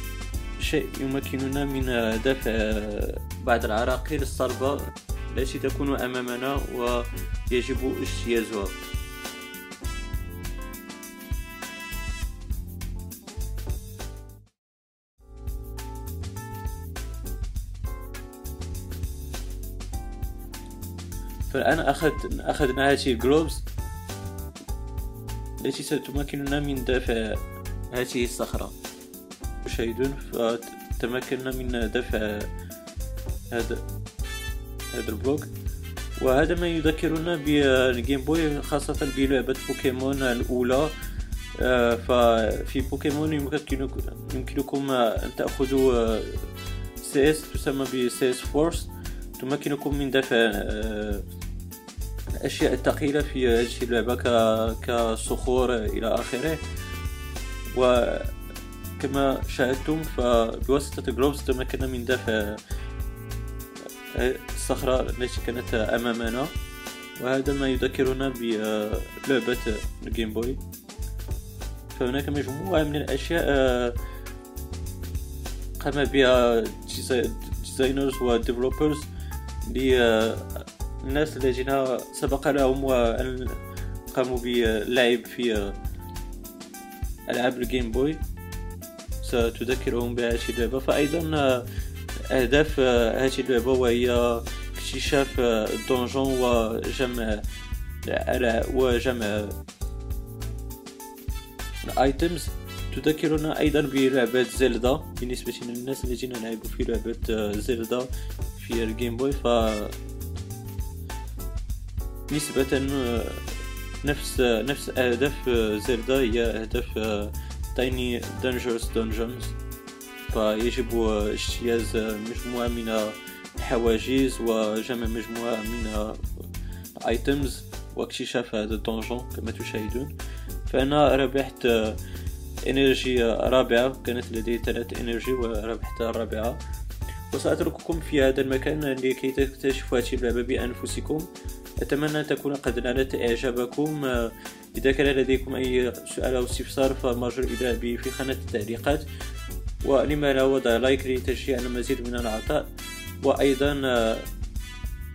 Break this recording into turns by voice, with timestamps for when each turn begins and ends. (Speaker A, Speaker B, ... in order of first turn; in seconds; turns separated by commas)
Speaker A: 0.6-8.8, Speaker A: 21.5-23.6, Speaker A: 25.6-28.8, Speaker A: 29.6-32.5, Speaker A: 33.5-33.8, Speaker A: 34.9-35.5, Speaker A: 36.2-40.9, Speaker A: 41.6-46.5, Speaker A: 47.0-51.2, Speaker A: 52.4-56.6, Speaker A: 57.7-58.3, Speaker A: 59.0-62.6, Speaker A: 64.1-66.5, Speaker A: 67.2-70.6, Speaker A: 71.9-74.0, Speaker A: 75.8-79.1, Speaker A: 79.6-83.6, Speaker A: 84.1-85.8, Speaker A: 87.3-88.2, Speaker A: 89.2-91.6, Speaker A: 92.3-97.4, Speaker A: 98.0-99.5, Speaker A: 101.8-109.9, Speaker A: 112.3-113.5, Speaker A: 114.0-119.5, Speaker A: 120.3-126.2, Speaker A: 127.0-130.1, Speaker A: 130.7-132.0, Speaker A: 132.6-136.6, Speaker A: 137.3-141.3, Speaker A: 141.8-149.0, Speaker A: 149.8-152.7, Speaker A: 153.2-154.3